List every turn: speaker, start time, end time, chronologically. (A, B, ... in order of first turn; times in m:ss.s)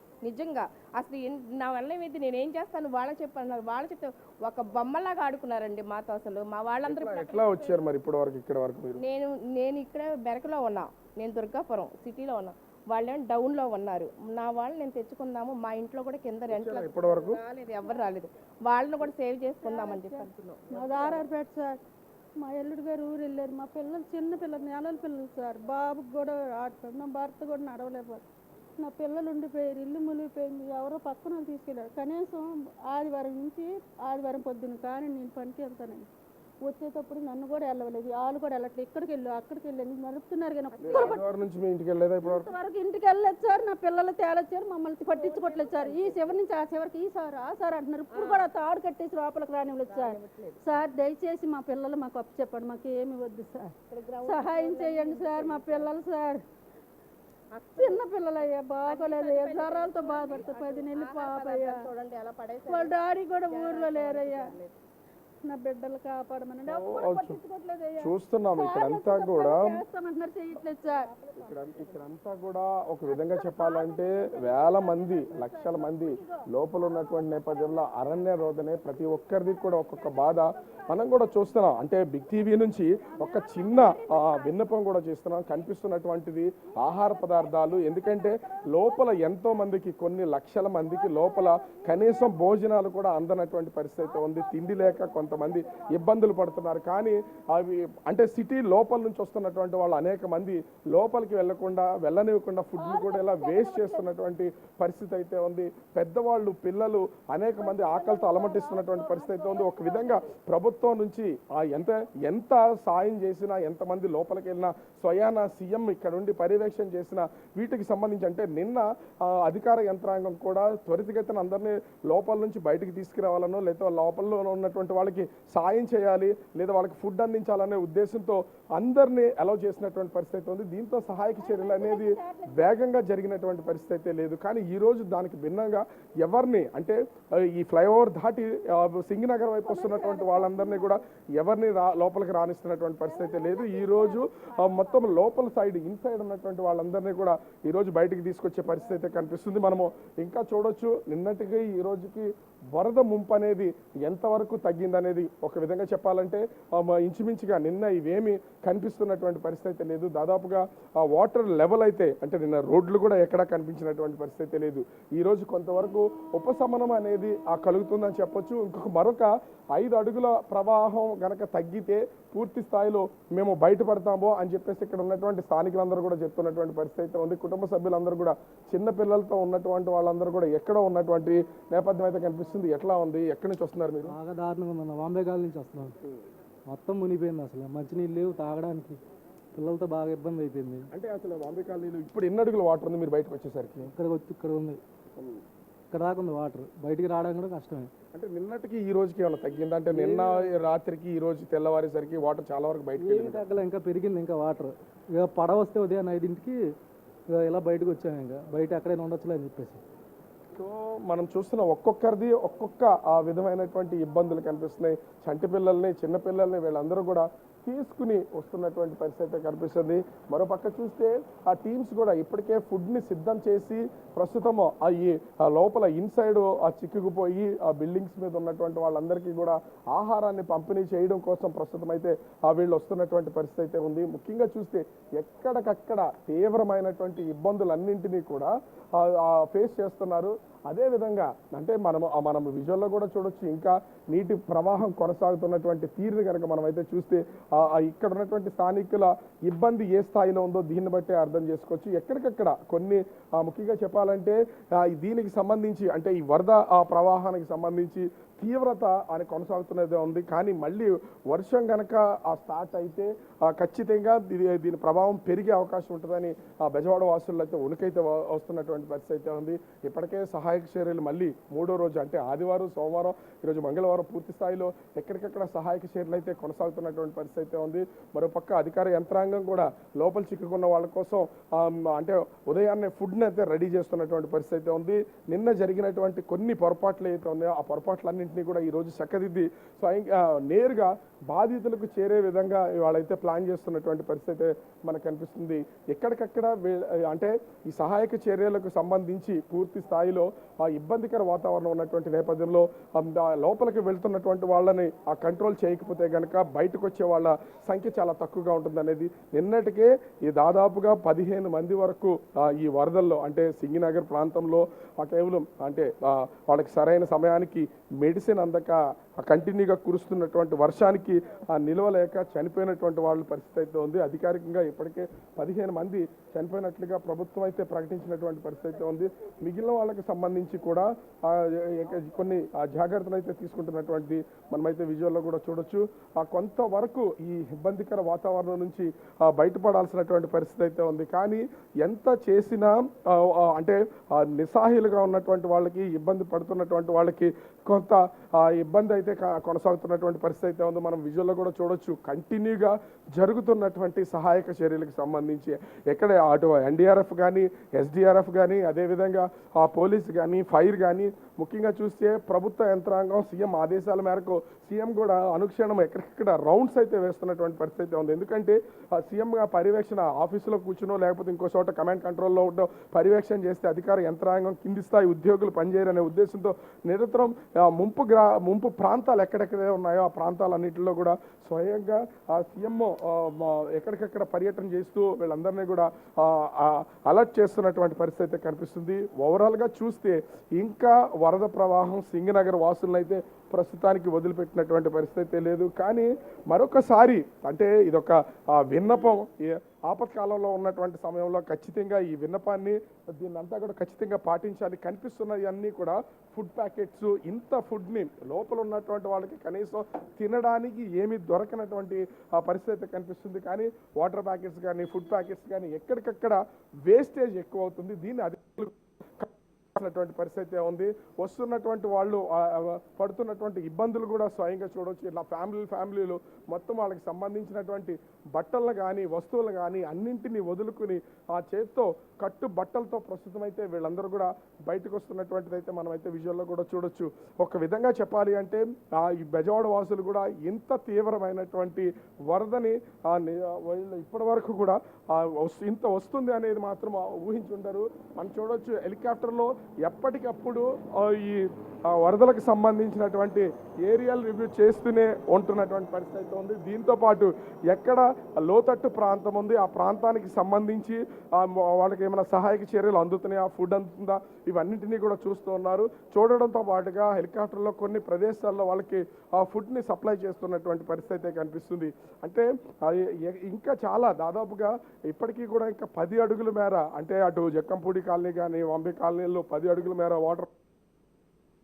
0:00.2-0:07.8 A
0:06.8-0:09.0 B
0:09.0-0:21.2 A
0:16.5-0:17.4 B
0:19.6-0:21.8 C
0:22.4-0:28.2 C
0:28.8-0:36.1 C
0:36.6-0:41.2 C
0:40.8-0:41.2 A
0:40.8-0:42.5 B
0:42.2-0:53.7 C
0:45.1-0:46.4 A
0:48.1-0:48.5 A
0:49.9-0:50.6 A
0:53.9-0:55.9 A
0:54.2-0:56.4 C
0:57.6-0:58.0 A
0:57.8-1:01.9 C
0:58.8-1:04.7 A
1:02.7-1:04.5 C
1:05.4-1:11.2 C
1:06.7-1:07.4 B
1:08.0-1:09.8 B
1:11.4-3:04.1 B
1:13.1-1:16.5 C
1:23.2-1:24.5 C
1:42.8-1:44.1 C
1:47.6-1:50.3 C
2:11.4-2:12.8 C
2:19.6-2:21.0 C
2:23.2-2:24.2 C
3:04.1-3:06.0 D
3:06.7-3:09.0 D
3:09.6-3:10.9 D
3:10.9-3:13.9 B
3:13.9-3:14.8 D
3:15.9-3:17.9 D
3:18.1-3:23.4 B
3:19.9-3:20.5 D
3:23.0-3:26.6 D
3:27.3-3:29.8 D
3:30.6-8:00.5 B